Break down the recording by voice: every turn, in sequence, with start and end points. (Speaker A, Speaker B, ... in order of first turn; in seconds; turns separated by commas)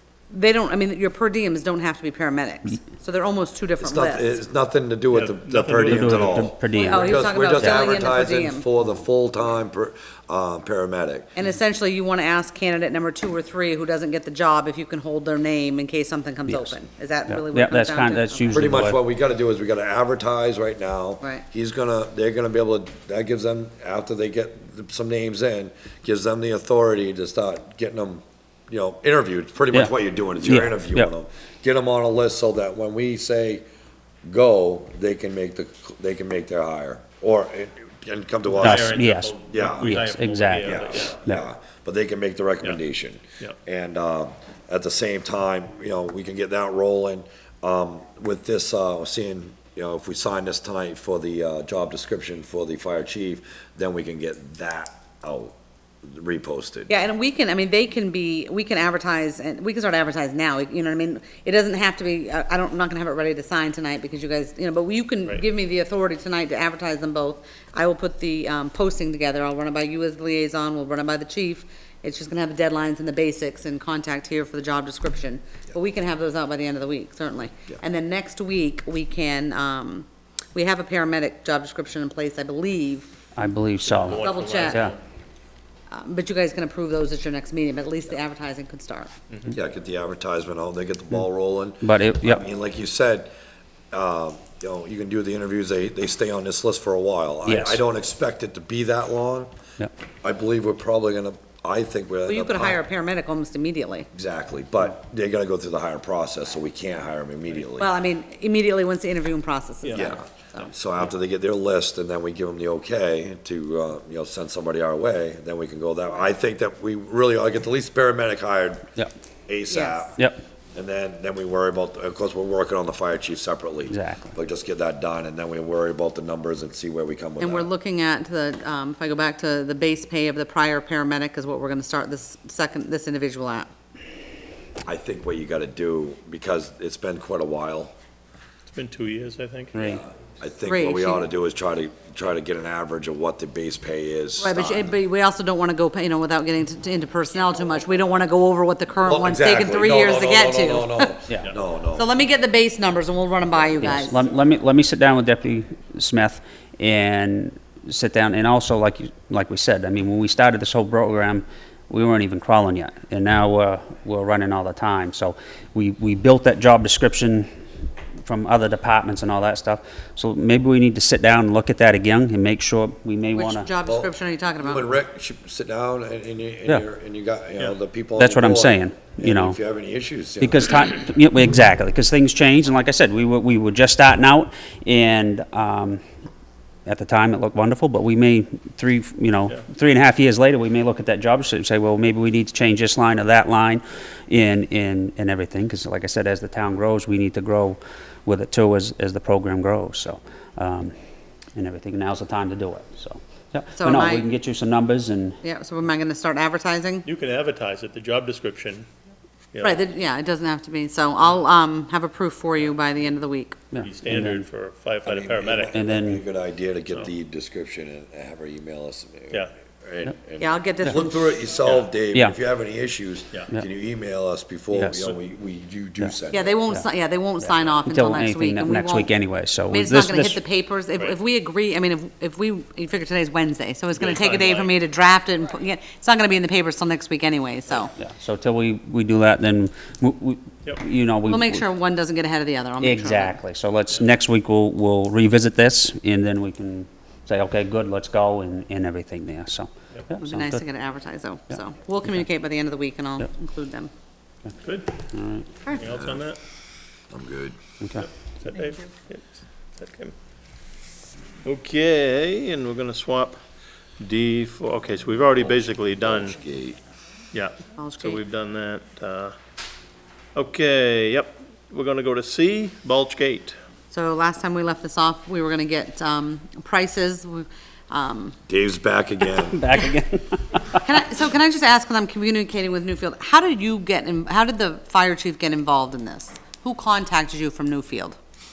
Speaker A: 0.3-4.4, Speaker B: 3.8-11.3, Speaker C: 5.1-6.5, Speaker D: 5.8-7.8, Speaker A: 6.7-8.6, Speaker A: 11.3-18.8, Speaker D: 16.5-16.7, Speaker D: 17.3-19.0, Speaker B: 18.5-33.6, Speaker D: 30.4-31.1, Speaker B: 34.2-40.0, Speaker C: 38.5-41.2, Speaker D: 38.6-41.4, Speaker B: 40.6-56.9, Speaker A: 56.9-83.1, Speaker D: 83.3-85.0, Speaker C: 83.8-85.0, Speaker A: 84.1-84.9, Speaker A: 85.9-89.1, Speaker B: 89.5-93.3, Speaker D: 91.8-92.4, Speaker B: 93.9-99.5, Speaker D: 97.5-97.8, Speaker B: 100.2-102.8, Speaker A: 102.3-104.1, Speaker B: 104.1-108.0, Speaker A: 107.8-110.7, Speaker C: 109.8-110.7, Speaker B: 109.9-118.9, Speaker B: 119.5-120.2, Speaker A: 119.7-120.1, Speaker B: 120.7-127.7, Speaker D: 123.9-124.3, Speaker A: 127.4-133.7, Speaker B: 134.8-137.9, Speaker C: 138.7-139.7, Speaker D: 139.7-140.0, Speaker B: 139.8-144.9, Speaker A: 140.6-141.2, Speaker A: 144.4-151.1, Speaker B: 149.0-152.1, Speaker A: 151.9-154.2, Speaker D: 153.8-167.5, Speaker D: 168.2-173.7, Speaker A: 173.3-174.9, Speaker B: 173.8-180.8, Speaker D: 178.2-179.6, Speaker D: 180.4-186.0, Speaker D: 186.8-200.9, Speaker D: 201.5-205.4, Speaker A: 203.8-204.3, Speaker A: 205.4-207.1, Speaker C: 207.0-208.9, Speaker C: 209.5-209.8, Speaker A: 209.6-213.6, Speaker D: 213.7-214.4, Speaker C: 213.8-215.8, Speaker B: 215.0-226.6, Speaker D: 215.7-216.2, Speaker A: 220.4-221.3, Speaker C: 221.6-221.9, Speaker D: 222.1-222.4, Speaker D: 224.7-225.0, Speaker A: 226.3-229.1, Speaker D: 227.7-230.4, Speaker A: 229.7-237.9, Speaker C: 234.0-234.7, Speaker D: 237.9-241.6, Speaker A: 241.3-243.4, Speaker D: 242.8-250.6, Speaker A: 250.2-253.9, Speaker C: 254.6-255.0, Speaker D: 255.1-255.6, Speaker C: 255.7-256.4, Speaker B: 255.8-256.2, Speaker B: 257.1-257.6, Speaker D: 257.8-258.1, Speaker C: 257.9-260.1, Speaker C: 261.4-263.4, Speaker C: 264.0-266.4, Speaker B: 265.5-266.8, Speaker C: 267.3-269.3, Speaker A: 267.8-268.2, Speaker C: 270.3-273.6, Speaker A: 273.9-278.4, Speaker B: 278.5-279.6, Speaker D: 279.2-280.8, Speaker A: 280.8-288.2